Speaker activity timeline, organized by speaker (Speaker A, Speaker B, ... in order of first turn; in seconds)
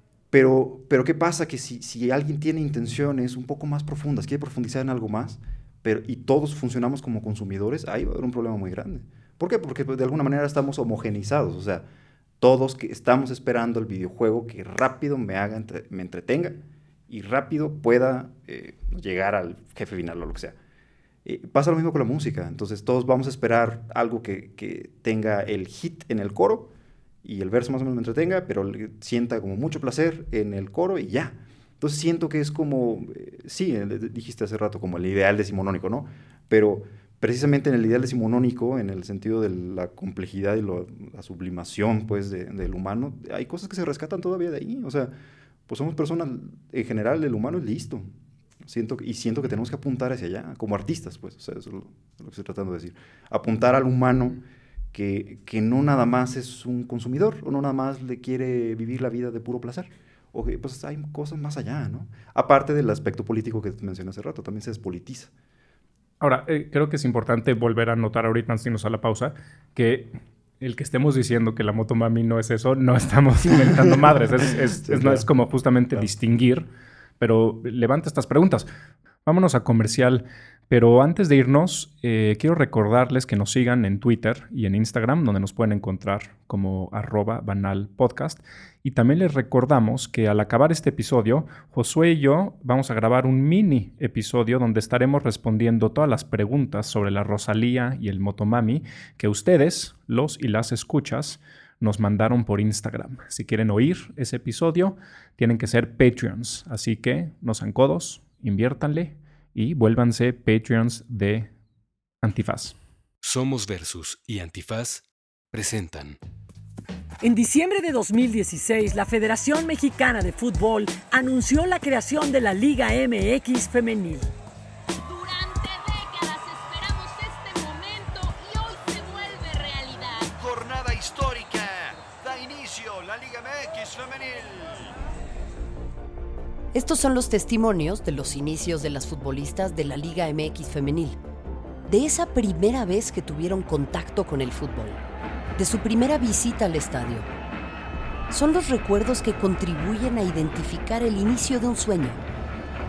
Speaker A: 0.3-11.9, 12.4-20.6, 21.2-26.7, 27.2-45.1, 45.7-48.1, 48.6-54.4, 54.9-65.3, 74.8-75.3
Speaker B: 66.2-76.7, 77.2-78.7, 79.2-111.5, 112.2-112.8
Speaker C: 113.2-116.2
Speaker D: 117.2-124.3
Speaker E: 125.0-130.3
Speaker F: 130.4-134.9
Speaker G: 136.7-141.2, 141.9-145.0, 145.6-147.3, 148.3-152.2